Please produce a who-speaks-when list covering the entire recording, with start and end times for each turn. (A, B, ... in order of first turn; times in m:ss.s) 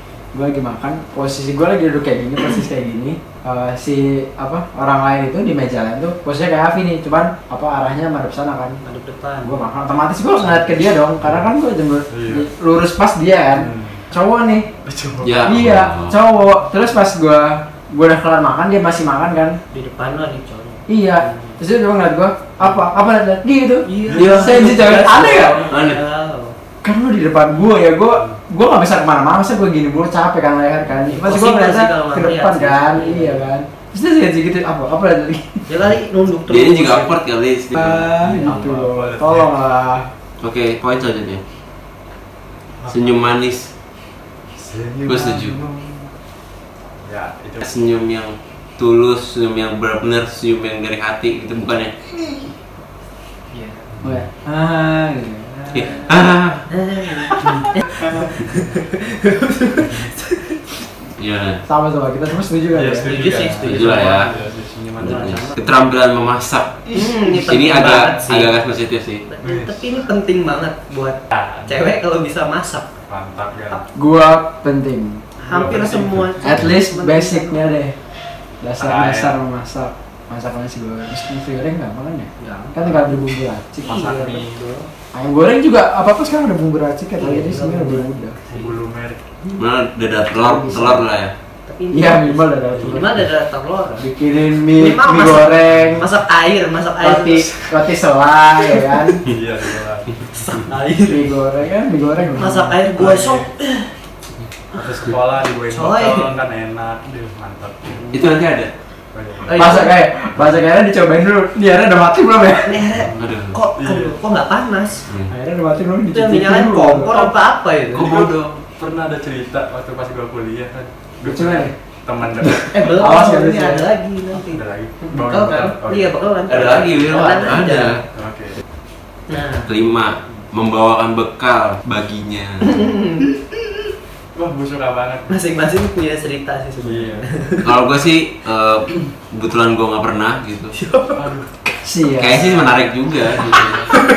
0:00.3-0:08.8 A
0:08.8-0:09.7 B
0:09.4-0:14.7 A
0:10.4-0:10.9 B
0:11.2-0:11.4 C
0:12.1-0:12.4 C
0:13.5-0:14.0 C
0:14.8-0:15.4 C
0:15.2-0:16.2 D
0:15.4-0:19.6 A
0:19.7-0:21.6 B
0:20.9-0:25.6 A
0:23.8-0:26.5 B
0:24.1-0:24.8 C
0:25.7-0:26.0 D
0:26.8-0:35.6 A
0:31.0-0:33.5 B
0:35.7-0:37.2 B
0:36.5-0:38.1 D
0:37.7-0:40.1 A
0:38.2-0:39.5 C
0:40.4-0:41.4 D
0:42.9-0:43.7 D
0:44.6-0:46.1 C
0:45.1-0:45.6 D
0:47.0-0:47.6 C
0:47.6-0:52.0 D
0:53.5-0:53.8 B
0:54.0-0:56.2 A
0:55.7-0:56.7 D
0:56.7-1:00.7 B
0:57.2-0:57.6 A
0:57.4-0:58.4 C
1:01.2-1:01.6 D
1:01.6-1:03.1 A
1:02.7-1:05.4 C
1:03.0-1:04.5 B
1:03.6-1:04.3 D
1:05.0-1:05.6 B
1:05.0-1:09.2 D
1:06.9-1:08.2 C
1:06.9-1:08.5 B
1:09.2-1:12.9 B
1:09.4-1:10.0 C
1:11.3-1:11.9 C
1:13.1-1:13.8 C
1:13.9-1:15.2 A
1:15.4-1:17.7 B
1:15.5-1:16.6 C
1:16.4-1:18.0 A
1:18.6-1:23.8 A
1:18.8-1:19.4 C
1:22.4-1:23.2 B
1:23.8-1:24.9 B
1:23.8-1:24.6 C
1:25.1-1:28.4 A
1:27.2-1:28.7 B
1:28.5-1:29.2 C
1:29.5-1:31.3 D
1:30.3-1:31.1 A
1:31.6-1:34.1 B
1:31.9-1:33.2 A
1:34.0-1:36.1 A
1:34.6-1:37.7 B
1:37.0-1:39.2 A
1:39.2-1:41.2 C
1:40.4-1:40.8 B
1:41.0-1:42.8 A
1:42.4-1:43.9 B
1:42.9-1:43.5 C
1:44.7-1:45.0 B
1:44.7-1:48.1 C
1:45.6-1:46.4 B
1:48.1-1:48.7 D
1:49.1-1:49.7 C
1:49.5-1:49.9 B
1:49.5-1:52.8 A
1:52.6-1:55.0 B
1:53.0-1:54.2 C
1:53.2-1:53.6 D
1:55.3-1:57.3 A
1:56.1-1:58.2 B
1:57.9-1:58.6 D
1:58.0-2:02.8 C
2:01.2-2:01.7 A
2:02.4-2:03.9 A
2:02.7-2:08.0 B
2:04.3-2:07.0 C
2:06.5-2:08.0 D
2:08.1-2:08.6 C
2:09.3-2:09.7 B
2:09.6-2:12.8 D
2:12.7-2:13.3 B
2:14.3-2:15.3 C
2:15.3-2:17.7 B
2:16.8-2:17.3 C
2:17.6-2:20.8 D
2:20.7-2:21.3 B
2:21.1-2:21.5 C
2:21.8-2:22.7 A
2:22.2-2:23.9 D